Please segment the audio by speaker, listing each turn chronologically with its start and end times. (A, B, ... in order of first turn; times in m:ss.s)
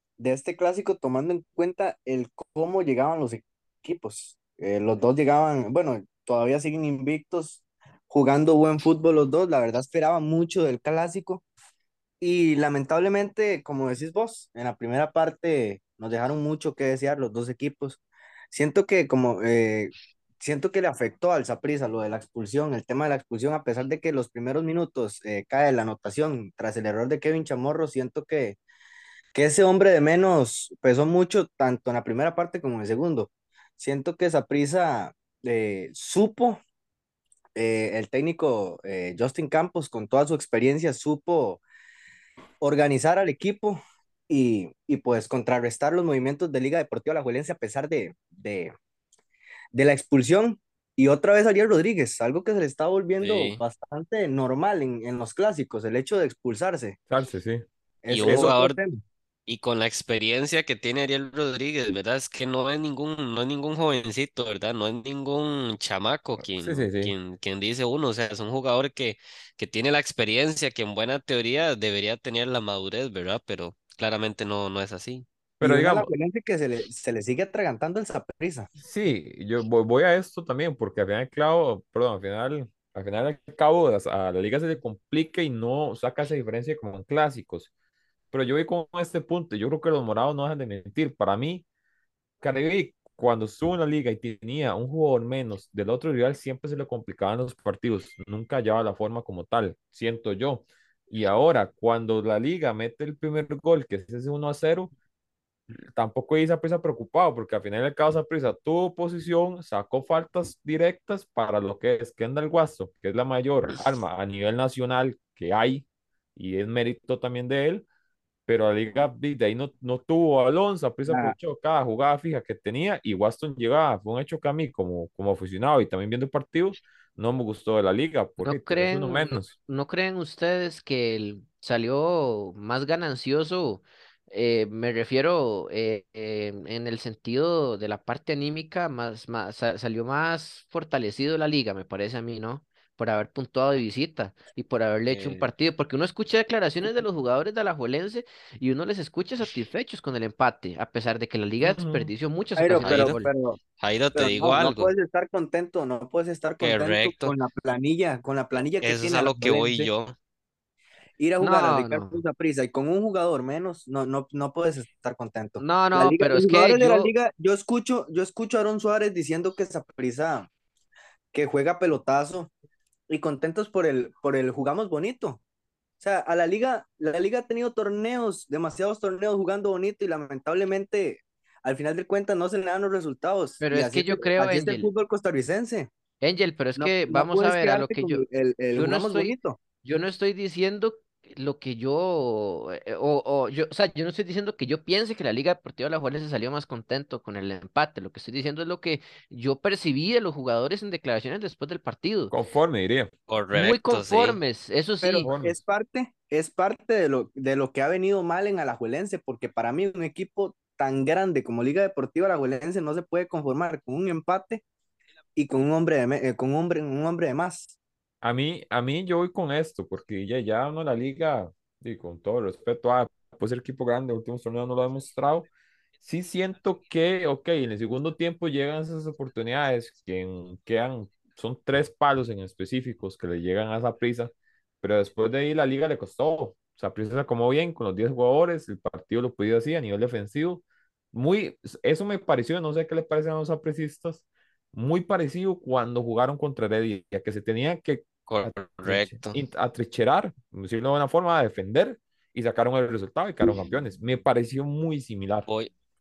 0:00.2-0:11.4 A
0:12.2-0:18.0 A
0:18.5-0:28.6 A
0:29.3-0:36.6 A
0:37.6-0:41.6 A
0:42.6-0:48.7 A
0:49.7-0:57.0 A
0:53.2-0:53.6 B
0:57.1-0:57.6 C
0:58.0-0:59.0 A
0:58.1-0:58.8 B
0:58.2-0:58.5 C
0:59.5-1:15.2 B
1:06.4-1:07.1 C
1:15.6-1:16.1 C
1:15.6-1:18.7 A
1:18.8-1:27.7 C
1:28.3-1:31.6 C
1:32.4-1:44.9 C
1:45.9-1:57.9 C
1:58.5-2:09.5 C
2:01.1-2:01.4 A
2:08.4-2:33.3 D
2:25.1-2:25.5 B
2:31.6-2:32.1 C
2:32.6-2:33.6 A
2:32.8-2:33.2 B
2:33.8-2:34.9 B
2:34.2-2:39.9 A
2:36.6-2:37.3 B
2:38.8-2:40.2 B
2:41.2-2:50.5 A
2:41.4-2:42.2 D
2:45.6-2:47.1 D
2:51.3-2:52.5 A
2:53.1-2:55.4 A
2:56.0-3:05.9 A
3:03.6-3:04.9 D
3:06.2-3:22.3 D
3:06.8-3:09.6 A
3:22.3-3:23.1 C
3:23.3-3:24.4 B
3:23.5-3:25.3 D
3:25.0-3:34.6 A
3:25.2-3:25.6 C
3:35.4-3:37.7 A
3:38.2-3:45.5 C
3:46.0-4:15.5 C
4:08.3-4:09.4 B